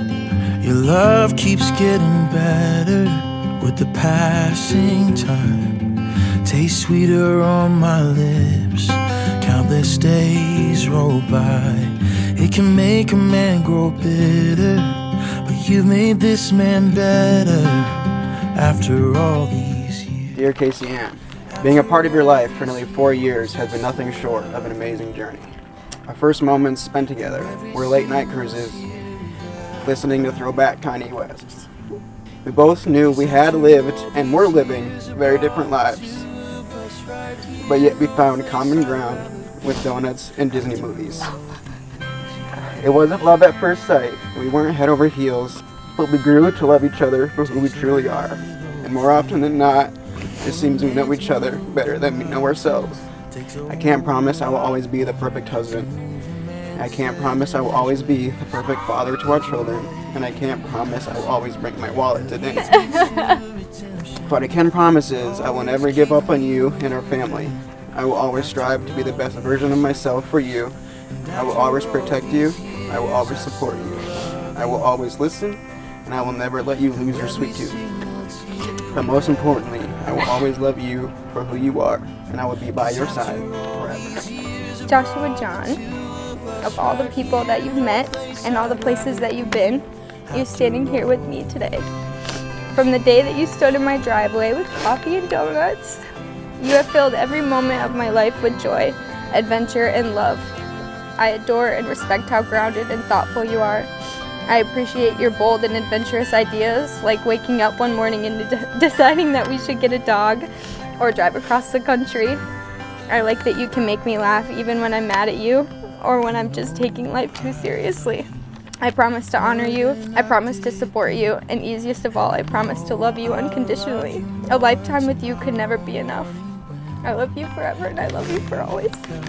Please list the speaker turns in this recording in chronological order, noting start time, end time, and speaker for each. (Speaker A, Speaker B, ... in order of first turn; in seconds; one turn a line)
Speaker A: 0.6-3.0
Speaker B: 2.8-3.4
Speaker A: 3.6-5.7
Speaker A: 6.4-11.8
Speaker B: 7.1-7.5
Speaker B: 10.3-10.7
Speaker A: 12.4-14.8
Speaker B: 13.0-16.2
Speaker A: 15.4-17.8
Speaker B: 16.8-17.8
Speaker A: 18.5-20.1
Speaker B: 19.1-20.3
Speaker C: 20.3-25.5
Speaker C: 26.1-28.9
Speaker C: 29.8-31.7
Speaker C: 32.4-36.3
Speaker C: 37.6-41.3
Speaker C: 42.6-53.0
Speaker C: 53.7-55.9
Speaker C: 56.7-62.7
Speaker B: 62.8-63.4
Speaker C: 64.2-70.8
Speaker C: 71.3-77.8
Speaker C: 78.9-84.3
Speaker B: 84.8-85.8
Speaker B: 86.6-91.9
Speaker B: 92.7-96.0
Speaker B: 96.6-100.5
Speaker B: 101.2-103.9
Speaker B: 104.5-112.4
Speaker B: 113.1-118.3
Speaker B: 118.8-126.4
Speaker B: 127.0-129.0